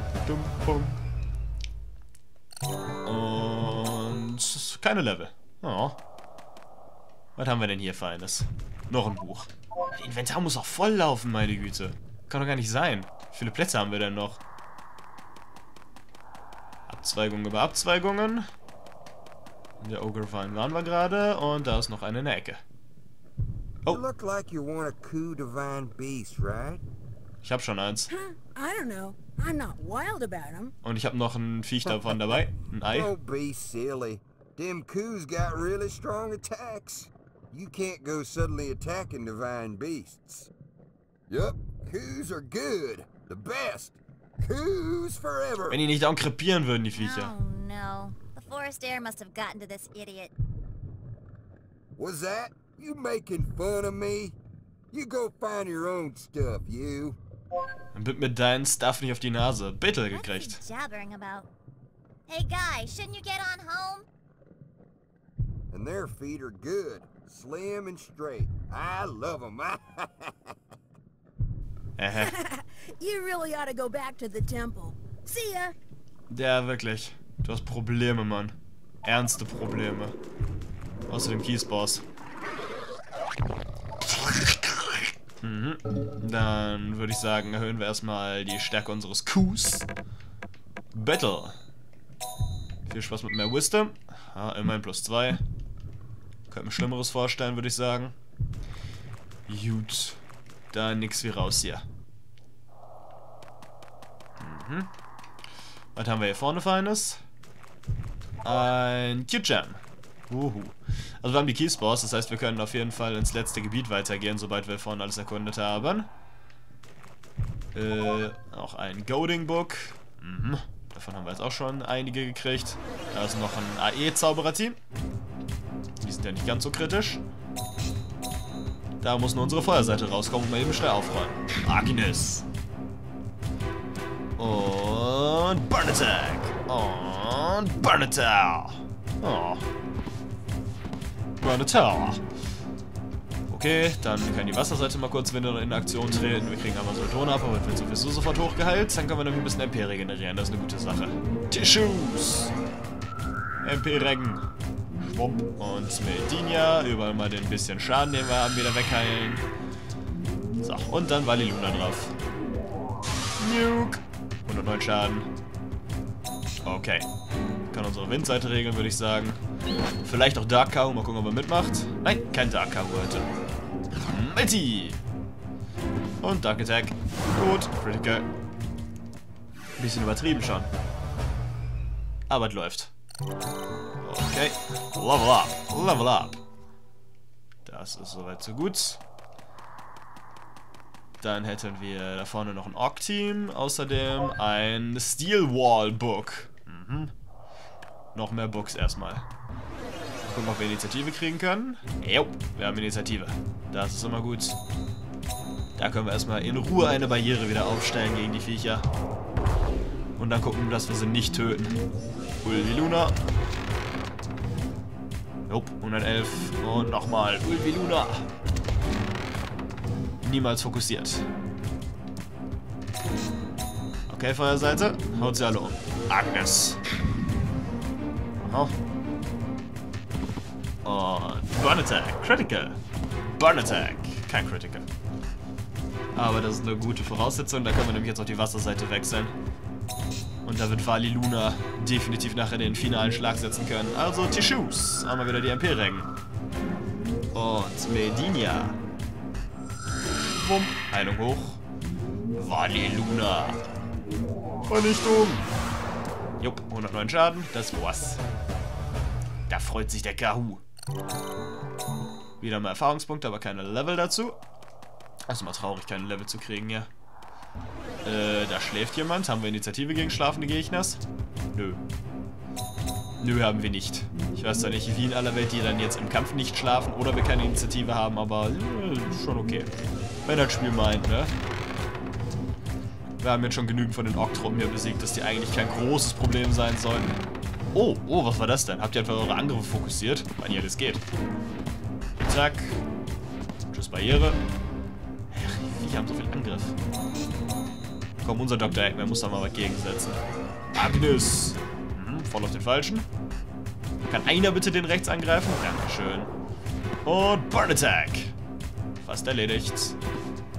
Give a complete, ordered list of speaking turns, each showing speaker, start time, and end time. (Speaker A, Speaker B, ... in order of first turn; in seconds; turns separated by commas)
Speaker A: 0.2-1.0, Speaker A: 3.0-6.0, Speaker A: 7.4-14.4, Speaker A: 16.9-18.5, Speaker A: 19.8-22.6, Speaker B: 23.9-26.8, Speaker A: 27.4-28.1, Speaker C: 28.1-30.7, Speaker A: 30.8-33.1, Speaker B: 32.9-40.5, Speaker B: 41.3-45.8, Speaker A: 45.7-47.3, Speaker D: 46.9-50.3, Speaker B: 52.0-54.4, Speaker B: 54.9-57.2, Speaker A: 57.9-60.6, Speaker D: 60.1-61.5, Speaker D: 62.3-64.0, Speaker B: 65.7-70.6, Speaker A: 72.0-72.3, Speaker C: 72.2-75.8, Speaker A: 76.3-80.2, Speaker A: 81.1-82.0, Speaker A: 84.1-89.9, Speaker A: 90.9-91.6, Speaker A: 92.9-95.4, Speaker A: 96.5-98.2, Speaker A: 99.5-100.2, Speaker A: 100.7-101.9, Speaker A: 104.4-104.9, Speaker A: 106.0-107.2, Speaker A: 108.4-116.1, Speaker A: 117.7-124.8, Speaker A: 126.0-127.2, Speaker A: 129.0-132.5, Speaker A: 134.4-139.6, Speaker A: 141.4-142.2, Speaker A: 143.5-152.5, Speaker A: 153.6-154.4, Speaker A: 155.0-159.5, Speaker A: 160.6-162.2, Speaker A: 163.4-165.3, Speaker A: 166.6-167.1, Speaker A: 167.7-169.4, Speaker A: 170.0-173.3, Speaker A: 174.1-175.0, Speaker A: 176.2-178.3, Speaker A: 179.8-180.7, Speaker A: 182.3-182.9, Speaker A: 184.0-186.4, Speaker A: 187.7-189.0, Speaker A: 191.2-197.1, Speaker A: 198.1-199.3, Speaker A: 200.2-204.6, Speaker A: 205.8-208.9, Speaker A: 210.2-211.8, Speaker A: 212.4-213.2, Speaker A: 215.5-218.3, Speaker A: 220.2-221.3, Speaker A: 224.1-226.8, Speaker A: 228.4-228.7, Speaker A: 230.8-234.9, Speaker A: 236.1-239.3, Speaker A: 240.4-246.1, Speaker A: 247.3-248.8, Speaker A: 250.1-251.6, Speaker A: 252.3-253.6, Speaker A: 254.7-255.5, Speaker A: 256.4-258.2, Speaker A: 259.5-260.6, Speaker A: 262.4-264.4, Speaker A: 265.3-266.9, Speaker A: 268.0-271.0, Speaker A: 271.5-271.8, Speaker A: 273.2-279.7, Speaker A: 280.2-281.4, Speaker A: 283.2-287.2, Speaker A: 287.7-291.1, Speaker A: 292.2-292.8, Speaker A: 293.7-294.4, Speaker A: 295.3-296.8, Speaker A: 298.2-300.2, Speaker A: 300.7-303.1, Speaker A: 304.1-306.3, Speaker A: 307.1-308.4, Speaker A: 309.0-310.0